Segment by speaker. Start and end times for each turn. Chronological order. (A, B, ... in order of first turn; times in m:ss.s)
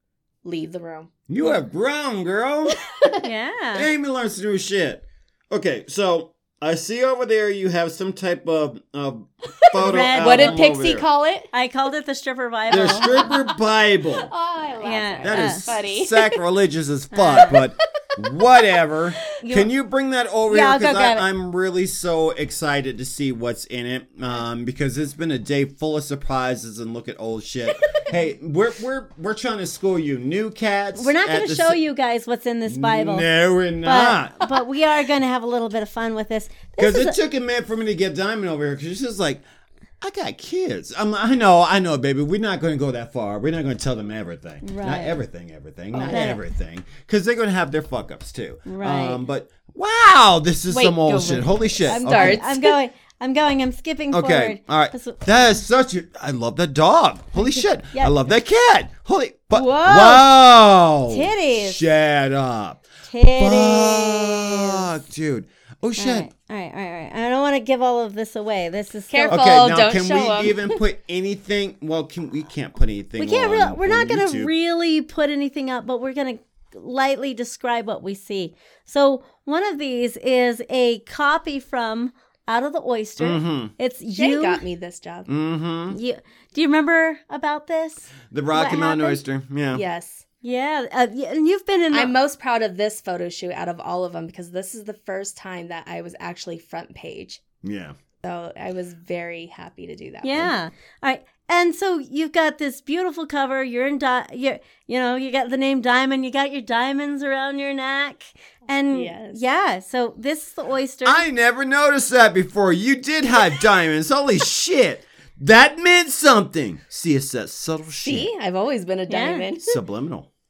0:00.4-0:01.1 A
0:01.3-0:02.9 B
0:02.8-0:03.3 A
0:03.2-0:03.9 C
0:03.8-0:11.1 B
0:09.6-0:11.5 A
0:09.8-0:10.6 C
0:11.5-0:13.3 C
0:12.7-0:14.3 B
0:12.8-0:13.6 A
0:14.2-0:16.4 A
0:14.8-0:15.7 C
0:15.2-0:31.8 B
0:17.1-0:17.6 C
0:17.4-0:17.6 A
0:19.4-0:19.7 C
0:20.5-0:21.3 C
0:27.7-0:28.0 A
0:31.0-0:33.3 C
0:32.7-0:34.4 B
0:33.8-0:37.2 C
0:36.8-0:39.4 B
0:40.0-0:52.5 B
0:44.6-0:45.2 C
0:45.9-0:46.4 A
0:46.0-0:46.4 C
0:48.7-0:49.2 C
0:50.7-0:52.8 A
0:51.9-0:55.6 C
0:54.1-1:06.3 B
0:57.4-0:58.2 C
0:59.5-1:00.3 C
1:01.1-1:01.8 C
1:03.1-1:04.9 C
1:06.0-1:09.4 C
1:09.1-1:10.8 A
1:09.3-1:14.5 B
1:13.2-1:24.6 C
1:23.2-1:23.7 B
1:24.2-1:25.3 A
1:25.3-1:26.0 B
1:25.9-1:29.2 C
1:28.3-1:29.8 B
1:29.7-1:30.2 A
1:30.4-1:32.1 C
1:31.9-1:37.4 A
1:37.6-1:38.0 B
1:38.2-1:40.5 A
1:40.2-1:51.3 C
1:48.9-1:49.4 A
1:51.0-1:58.3 B
1:58.0-1:59.8 A
1:59.1-1:59.5 C
1:59.6-2:00.3 B